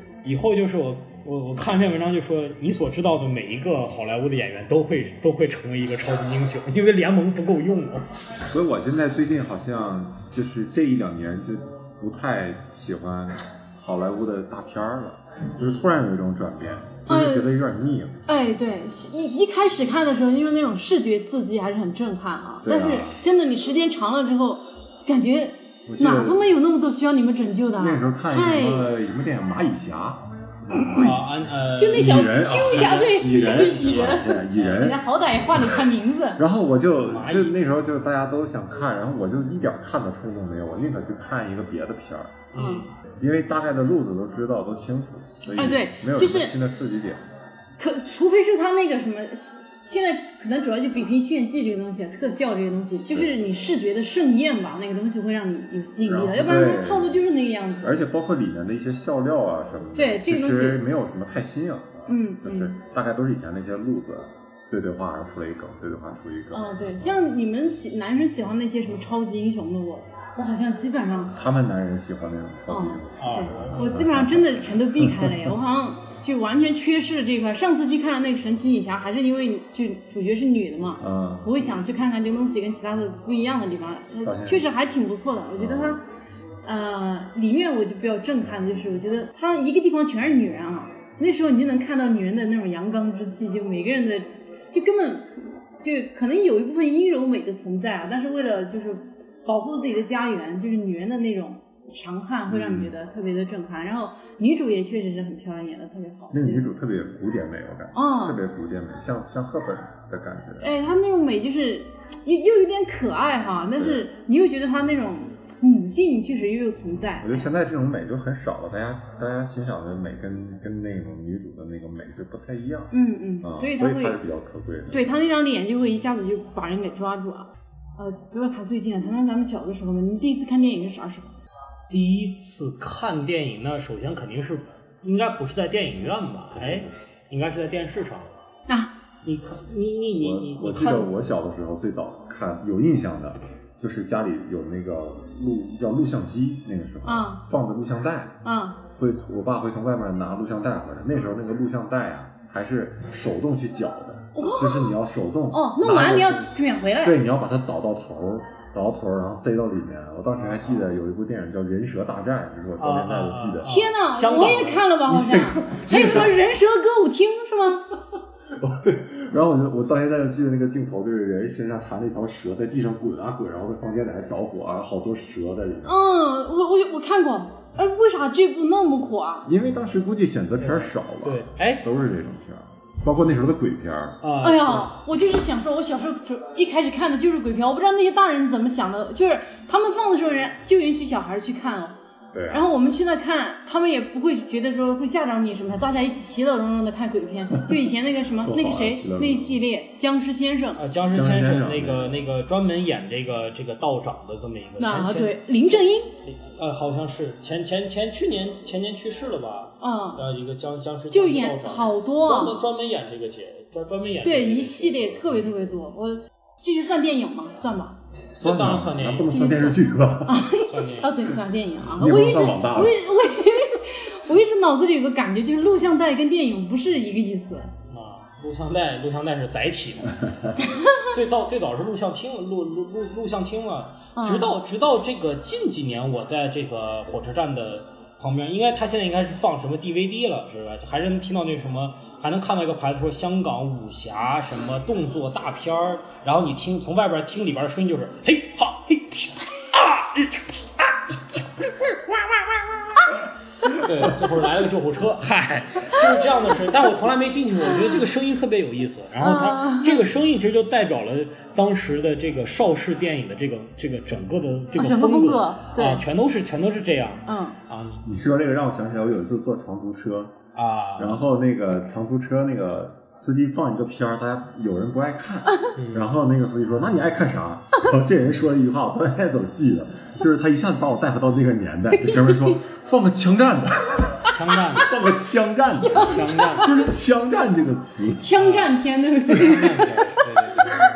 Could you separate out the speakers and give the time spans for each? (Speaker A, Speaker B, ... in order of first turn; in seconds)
Speaker A: 0.2-8.1, 15.6-15.9, 30.9-34.9, 36.9-37.6, 42.5-42.9, 73.2-73.9, 131.9-138.3, 139.2-141.1, 160.4-160.9, 162.8-164.9, 180.6-181.8, 184.2-184.9, 200.8-215.7, 218.3-219.7, 220.6-221.3, 227.9-268.0, 270.5-271.2, 275.8-276.1, 284.3-284.9, 285.8-286.8, 288.4-288.7, 289.3-290.8
Speaker B: 8.5-18.2, 22.6-23.2, 25.9-26.4, 27.8-31.2, 31.9-35.0, 36.4-42.5, 43.2-47.2, 56.0-57.2, 57.8-67.3, 71.3-75.5, 81.0-81.7, 84.2-84.7, 85.6-86.0, 102.5-102.9, 106.3-110.7, 113.8-114.1, 117.2-125.2, 136.5-136.9, 140.2-148.3, 149.0-156.5, 157.0-163.7, 165.1-166.3, 168.5-175.9, 179.4-184.2, 192.3-192.7, 198.4-199.6, 201.1-202.2, 218.4-220.5, 222.0-223.0, 268.0-270.3, 271.0-288.3
Speaker C: 17.1-17.5, 18.3-28.9, 31.8-36.4, 42.5-42.9, 45.5-46.5, 47.8-58.0, 60.0-60.8, 62.1-62.7, 66.5-71.3, 72.7-86.0, 86.6-106.7, 107.9-108.4, 110.6-117.4, 122.9-124.2, 124.9-131.3, 147.0-147.4, 148.4-148.8, 154.3-154.9, 155.5-157.2, 163.6-167.9, 175.8-179.5, 184.4-191.9, 192.5-200.8, 204.8-206.1, 209.8-210.2, 211.1-212.6, 214.2-217.9, 219.3-227.7, 230.6-231.1, 234.1-234.5, 257.7-258.0, 259.2-260.0, 264.8-266.0, 267.3-267.6, 282.0-282.5, 285.8-286.6, 288.2-290.2